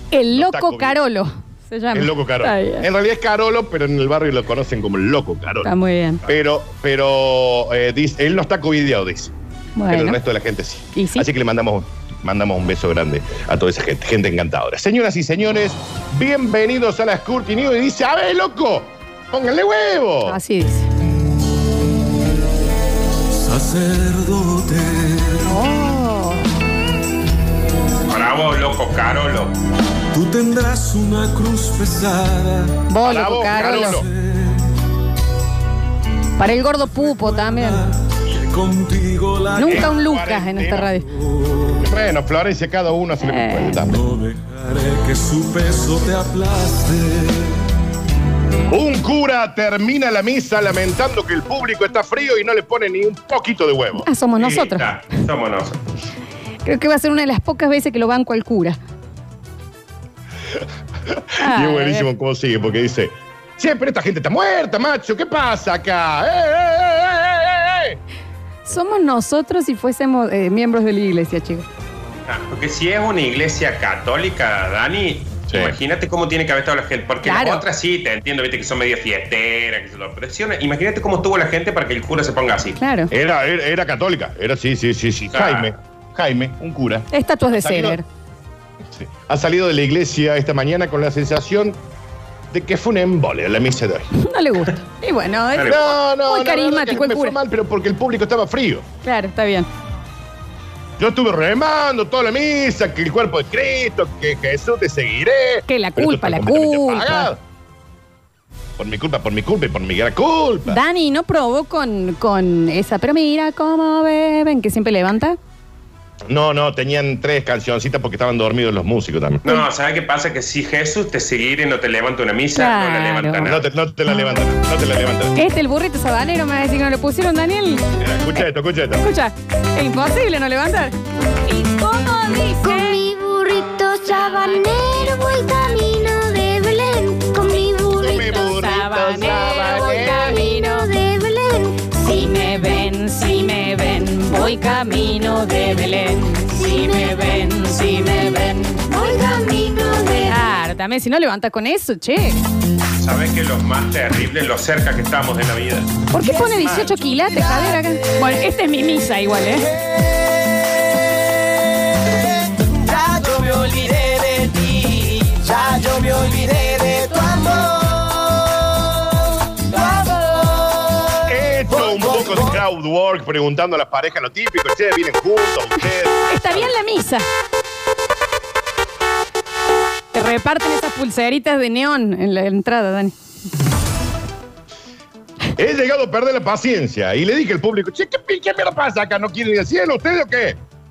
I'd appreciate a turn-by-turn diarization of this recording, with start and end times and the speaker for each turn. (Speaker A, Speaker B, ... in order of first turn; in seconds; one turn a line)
Speaker A: 0.1-2.9
Speaker B: 0.3-1.0
Speaker B: 1.9-5.7
Speaker A: 5.6-6.2
Speaker B: 6.3-9.3
Speaker A: 9.8-10.2
Speaker B: 9.9-20.4
Speaker A: 10.9-11.3
Speaker A: 20.2-20.9
Speaker C: 23.4-25.4
Speaker A: 25.4-26.4
Speaker D: 28.1-29.5
Speaker C: 30.1-32.8
Speaker A: 32.9-34.0
Speaker B: 33.0-34.1
Speaker C: 34.3-34.6
Speaker A: 36.4-37.9
Speaker C: 37.1-39.7
Speaker A: 39.5-41.1
Speaker B: 39.6-41.0
Speaker B: 41.8-44.0
Speaker A: 43.2-43.8
Speaker C: 43.9-47.6
Speaker B: 48.7-54.1
Speaker A: 53.9-54.9
Speaker D: 54.4-55.8
Speaker A: 56.6-58.8
Speaker B: 61.1-68.0
Speaker A: 61.4-62.1
Speaker A: 68.7-71.7
Speaker D: 72.3-82.8
Speaker B: 75.5-75.8
Speaker A: 77.2-77.6
Speaker A: 82.8-83.1
Speaker B: 83.1-88.0
Speaker D: 85.3-85.8
Speaker A: 87.1-88.0
Speaker B: 89.0-91.8
Speaker B: 92.5-94.1
Speaker A: 94.1-97.4
Speaker D: 95.5-95.8
Speaker B: 95.7-98.8
Speaker A: 99.0-99.7
Speaker B: 101.0-107.4
Speaker A: 105.7-107.3
Speaker B: 108.8-110.8
Speaker A: 110.7-115.4
Speaker B: 116.3-119.5
Speaker D: 119.4-123.7
Speaker A: 122.5-123.5
Speaker B: 123.4-125.4
Speaker A: 125.3-127.8
Speaker B: 128.0-129.1
Speaker A: 129.0-133.0
Speaker E: 132.6-138.7
Speaker A: 134.1-135.1
Speaker B: 138.0-140.3
Speaker A: 138.4-140.9
Speaker E: 139.4-142.0
Speaker A: 142.0-148.9
Speaker E: 146.5-147.4
Speaker E: 148.9-150.5
Speaker A: 150.2-152.4
Speaker D: 153.0-155.9
Speaker A: 156.1-159.7
Speaker B: 156.7-156.9
Speaker F: 162.7-168.3
Speaker F: 170.3-170.6
Speaker B: 171.2-176.8
Speaker A: 176.3-177.3
Speaker A: 180.1-183.2
Speaker B: 185.6-190.6